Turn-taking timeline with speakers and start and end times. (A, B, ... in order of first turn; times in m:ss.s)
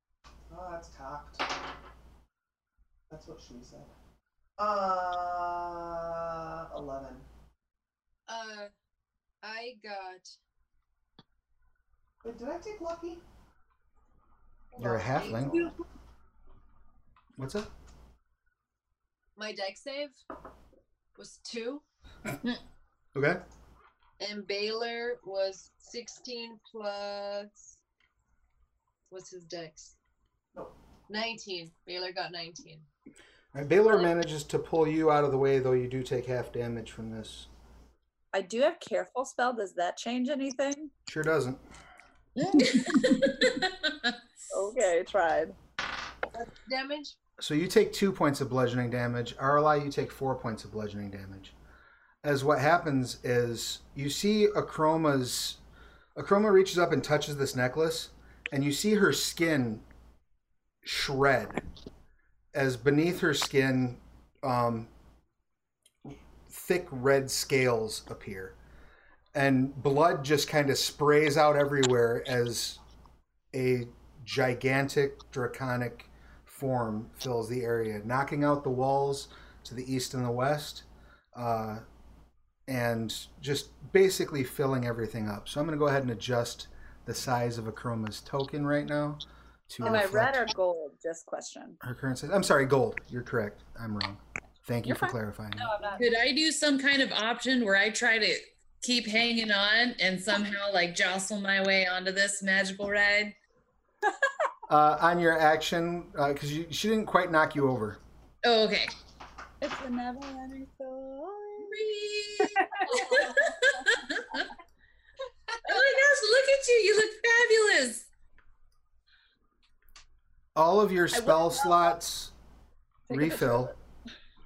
0:00.5-0:01.5 A
0:03.1-0:03.9 A
0:04.6-0:07.3 A
0:08.3-0:08.7 B
0:09.4-0:10.3 B
0:12.2-0:13.2 A
0:14.7-0:15.7 A
0:14.8-0:15.5 C
0:15.4-0:15.8 B
0:17.4-0:17.7 C
0:19.4-0:20.2 B
0:21.2-0:21.8 B
0:23.1-0:23.4 C
0:24.2-0:27.8 B
0:29.1-0:29.9 B
0:31.1-0:32.9 B
0:33.5-0:37.5 C
0:38.3-0:40.9 D
0:41.0-0:41.6 C
0:42.4-0:44.2 E
0:44.5-0:45.6 D
0:46.3-0:47.1 B
0:47.4-0:51.5 C
0:52.2-0:55.6 C
0:56.1-0:59.8 C
1:00.8-1:01.6 C
1:02.5-1:04.9 C
1:06.0-1:08.6 C
1:09.3-1:12.8 C
1:13.5-1:21.8 C
1:22.7-1:30.4 C
1:29.8-1:31.8 D
1:31.8-1:35.7 C
1:34.8-1:36.0 D
1:36.0-1:43.3 E
1:44.7-1:48.0 C
1:48.4-1:48.9 E
1:49.6-1:51.9 D
1:51.7-1:54.5 E
1:52.4-1:54.0 D
1:55.6-1:58.1 E
2:00.5-2:02.3 C
2:01.1-2:02.0 D
2:03.1-2:03.7 C
2:03.1-2:03.8 D